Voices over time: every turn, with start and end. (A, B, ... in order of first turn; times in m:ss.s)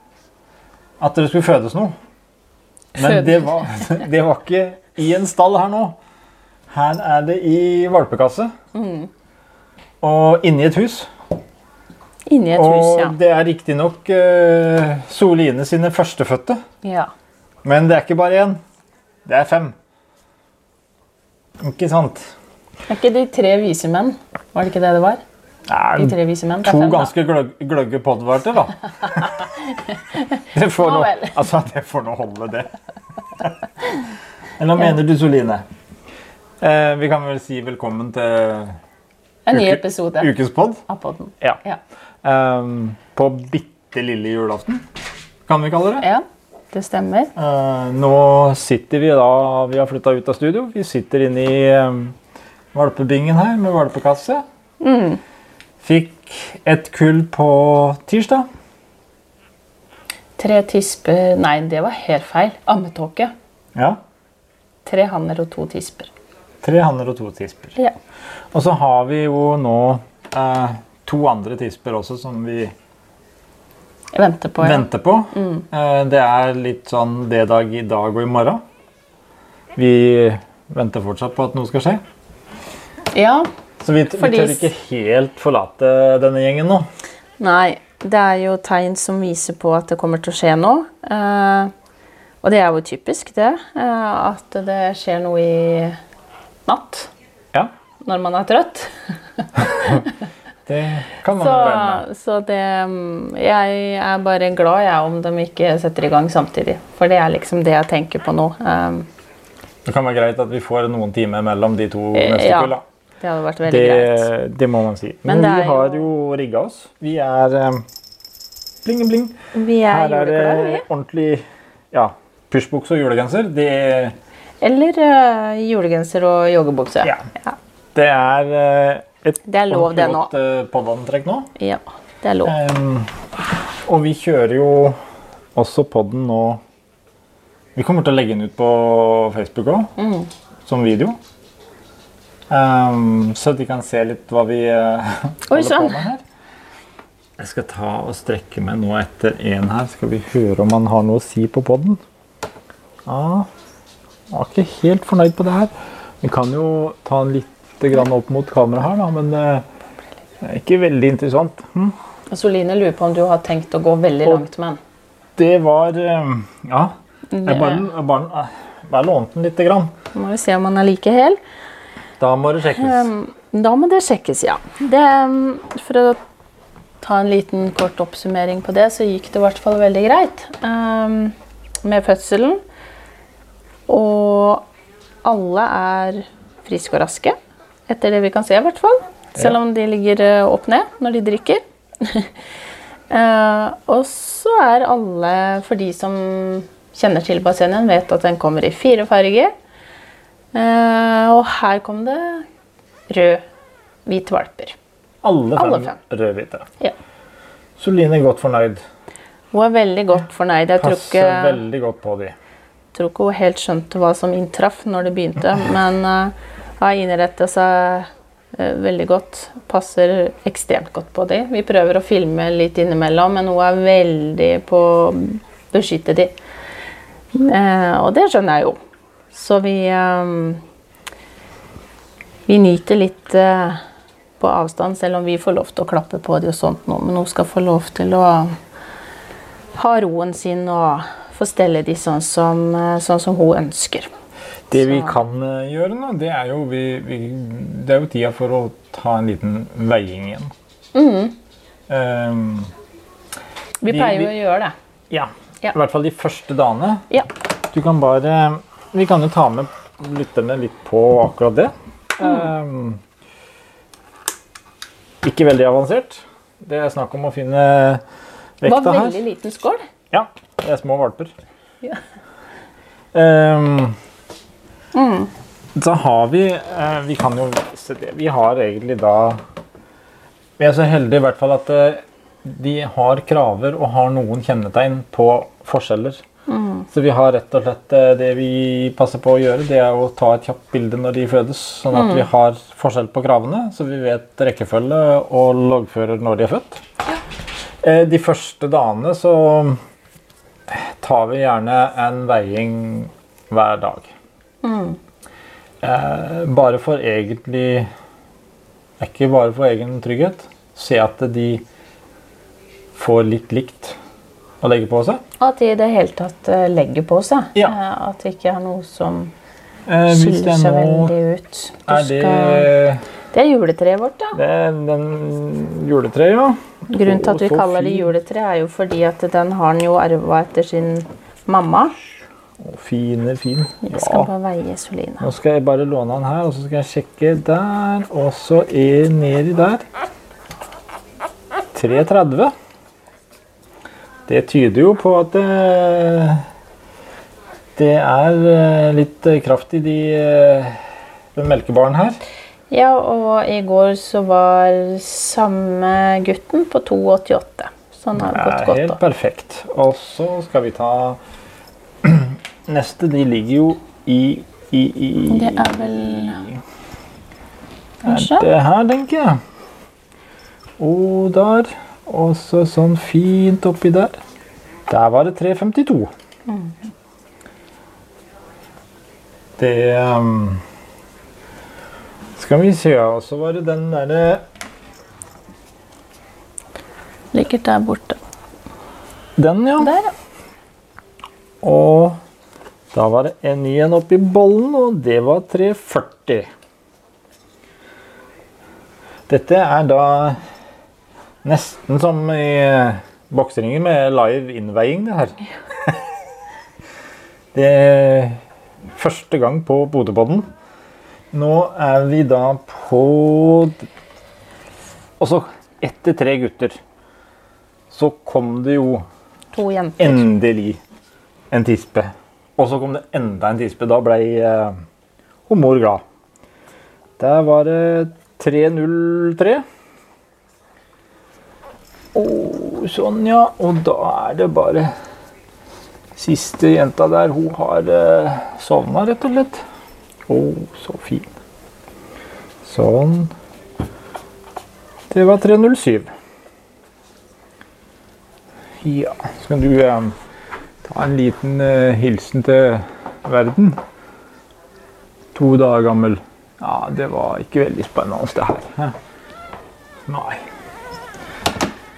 0:01.0-0:01.9 A
0:02.9-0:03.7 B
0:03.0-0:06.0 A
0:06.7-0:08.5 A
0:08.7-0:09.1 B
0:10.0-0:11.1 A
0:12.3-0:13.1 B
0:12.6-0:16.6 A
0:16.8-0:17.1 B
0:17.6-0:18.6 A
0:19.2-0:19.7 A
0:21.6-0:22.3 A
0:22.9-0:25.2 B
0:25.7-0:29.4 A
0:26.0-0:27.1 B
0:29.4-0:31.4 B
0:30.5-0:32.7 A
0:34.6-0:35.6 A
0:36.6-0:38.8 A
0:39.4-0:40.3 B
0:39.5-0:40.8 A
0:40.9-0:41.8 B
0:42.2-0:44.8 A
0:45.5-0:46.1 A
0:46.0-0:47.3 B
0:47.4-0:52.2 A
0:52.7-0:54.4 A
0:54.8-0:55.2 B
0:55.8-0:58.5 A
1:00.4-1:03.3 B
1:03.7-1:04.0 A
1:04.8-1:06.1 B
1:06.6-1:07.8 A
1:08.5-1:12.7 A
1:14.1-1:15.6 B
1:14.6-1:18.6 A
1:19.7-1:22.0 A
1:23.1-1:23.4 B
1:23.8-1:26.8 A
1:24.2-1:24.7 B
1:27.4-1:31.7 B
1:32.4-1:36.0 B
1:36.6-1:37.1 B
1:38.0-1:40.1 B
1:40.6-1:42.0 A
1:41.3-1:49.1 B
1:49.8-1:52.8 A
1:52.1-1:54.3 B
1:53.7-1:57.8 A
1:55.2-1:56.1 B
1:58.8-1:59.3 A
1:59.5-2:00.8 B
1:59.8-2:04.1 A
2:04.6-2:07.5 B
2:07.9-2:11.5 A
2:09.5-2:10.3 B
2:11.6-2:12.5 B
2:12.4-2:13.1 A
2:13.8-2:15.0 A
2:15.5-2:16.6 A
2:17.7-2:19.9 A
2:20.0-2:20.3 B
2:20.6-2:21.2 A
2:22.5-2:26.2 A
2:25.5-2:26.0 B
2:27.4-2:32.0 A
2:33.0-2:33.5 A
2:34.3-2:39.6 A
2:40.4-2:42.0 A
2:42.3-2:44.8 B
2:45.4-2:46.9 A
2:47.3-2:47.8 B
2:47.4-2:49.9 A
2:50.1-2:51.4 B
2:52.2-2:53.1 A
2:52.7-2:56.2 B
2:57.0-3:02.6 B
3:03.9-3:04.7 B
3:05.2-3:07.4 B
3:07.9-3:12.3 B
3:13.1-3:19.5 B
3:20.5-3:22.4 B
3:23.1-3:23.4 B
3:24.0-3:24.8 B
3:25.2-3:26.6 A
3:25.6-3:25.9 B
3:27.8-3:28.8 A
3:29.5-3:31.6 B
3:30.8-3:32.3 A
3:32.9-3:46.3 B
3:47.3-3:48.8 B
3:49.3-3:50.6 B
3:52.5-3:53.8 B
3:54.4-3:58.5 B
3:59.7-4:04.1 B
4:04.7-4:10.5 A
4:04.7-4:05.2 B
4:10.9-4:11.4 B
4:11.9-4:12.7 A
4:13.8-4:14.7 B
4:13.9-4:14.3 A
4:15.1-4:17.0 A
4:17.7-4:23.0 A
4:25.2-4:28.0 A
4:28.6-4:29.2 A
4:28.6-4:29.8 B
4:30.1-4:31.3 A
4:33.1-4:34.0 A
4:34.9-4:35.3 B
4:35.8-4:39.4 A
4:40.6-4:46.2 A
4:46.5-4:46.9 B
4:46.9-4:56.8 A
4:51.9-4:52.2 B
4:57.8-4:59.8 A
5:00.7-5:04.1 A
5:04.6-5:05.0 B
5:05.8-5:07.9 A
5:09.0-5:11.6 A
5:12.9-5:14.0 A
5:14.6-5:15.2 A
5:15.4-5:19.3 B
5:19.9-5:21.1 A
5:20.1-5:22.7 B
5:21.9-5:23.0 A
5:23.3-5:24.4 B
5:24.4-5:28.1 A
5:26.9-5:31.9 B
5:32.6-5:34.3 A
5:33.8-5:35.3 B
5:35.2-5:39.8 A
5:41.7-5:42.5 A
5:44.3-5:46.4 A
5:47.8-5:50.8 A
5:51.3-5:52.2 A
5:52.7-5:59.0 B
5:58.1-6:01.2 A
6:02.0-6:06.6 A
6:05.3-6:06.4 B
6:08.0-6:09.4 A
6:08.0-6:08.4 B
6:10.8-6:14.2 A
6:14.9-6:16.1 A
6:16.5-6:16.8 B
6:19.6-6:20.6 A
6:22.4-6:24.4 A
6:27.3-6:28.2 B
6:29.4-6:29.9 A
6:29.8-6:30.1 B
6:31.6-6:32.2 A
6:32.9-6:36.5 A
6:39.3-6:40.4 A
6:41.4-6:45.4 A
6:47.5-6:48.4 A
6:48.9-6:50.5 A
6:51.3-6:53.8 A
6:55.2-6:56.8 A
6:57.9-6:59.0 A
6:59.5-7:00.2 B
7:00.0-7:00.8 A
7:01.5-7:04.8 A
7:05.5-7:06.0 A
7:07.2-7:09.6 A
7:12.1-7:14.9 A
7:16.1-7:19.6 A
7:20.3-7:21.3 A
7:22.6-7:23.3 A
7:25.1-7:26.1 A
7:28.8-7:30.1 A
7:30.8-7:33.8 A
7:35.3-7:39.0 A
7:40.1-7:40.4 A